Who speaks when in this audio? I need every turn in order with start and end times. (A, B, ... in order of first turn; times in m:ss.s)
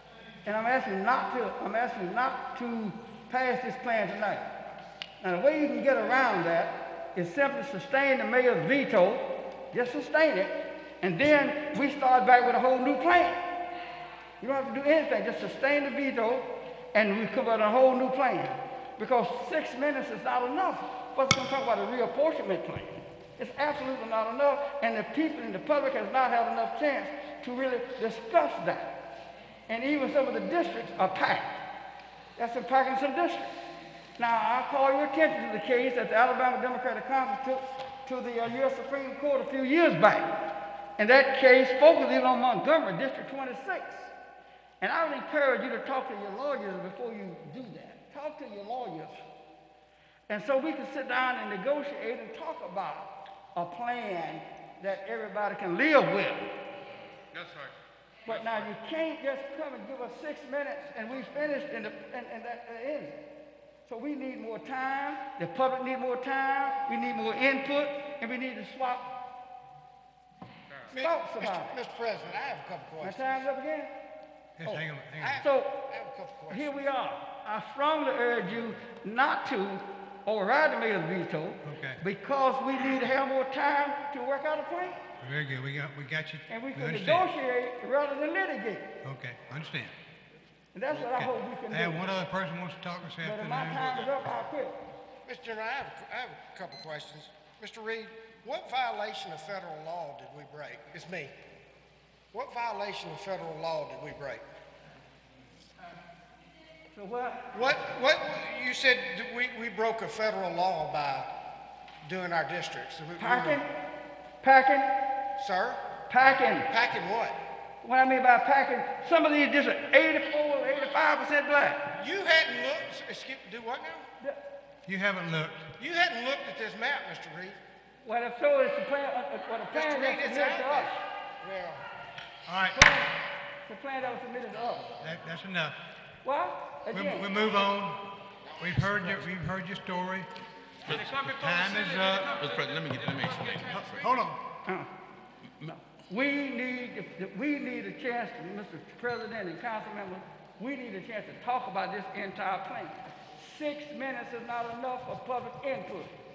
0:00.4-0:04.5 A
0:05.2-0:13.4 A
0:14.4-0:28.9 A
0:29.7-0:31.6 A
0:32.4-0:33.5 A
0:34.2-0:40.3 A
0:41.0-0:44.1 A
0:44.8-0:49.2 A
0:50.3-0:56.5 A
0:58.2-1:03.2 A
1:03.8-1:09.1 A
1:10.9-1:13.3 B
1:11.0-1:11.8 A
1:13.0-1:13.9 A
1:14.6-1:15.4 C
1:15.2-1:16.8 B
1:15.4-1:15.8 A
1:16.5-1:25.0 A
1:21.6-1:22.0 C
1:25.2-1:27.3 C
1:26.5-1:28.9 A
1:29.0-1:29.9 C
1:30.7-1:32.1 A
1:31.0-1:34.2 C
1:33.2-1:34.8 A
1:35.2-1:41.3 B
1:42.3-1:44.4 B
1:46.9-1:47.5 A
1:47.5-1:51.3 B
1:52.0-1:53.6 B
1:53.2-1:53.7 A
1:54.4-1:54.9 A
1:55.4-1:55.8 B
1:56.1-1:56.7 A
1:56.7-1:57.4 B
1:57.8-2:01.8 A
2:02.0-2:04.0 B
2:04.9-2:05.7 C
2:05.8-2:07.6 B
2:08.0-2:11.0 A
2:09.7-2:11.8 B
2:12.5-2:12.9 C
2:12.7-2:13.1 A
2:13.6-2:14.9 A
2:15.0-2:15.8 C
2:16.2-2:17.4 A
2:16.9-2:20.3 C
2:20.8-2:21.4 D
2:21.1-2:22.4 C
2:22.3-2:24.1 D
2:23.8-2:24.4 C
2:25.6-2:36.1 A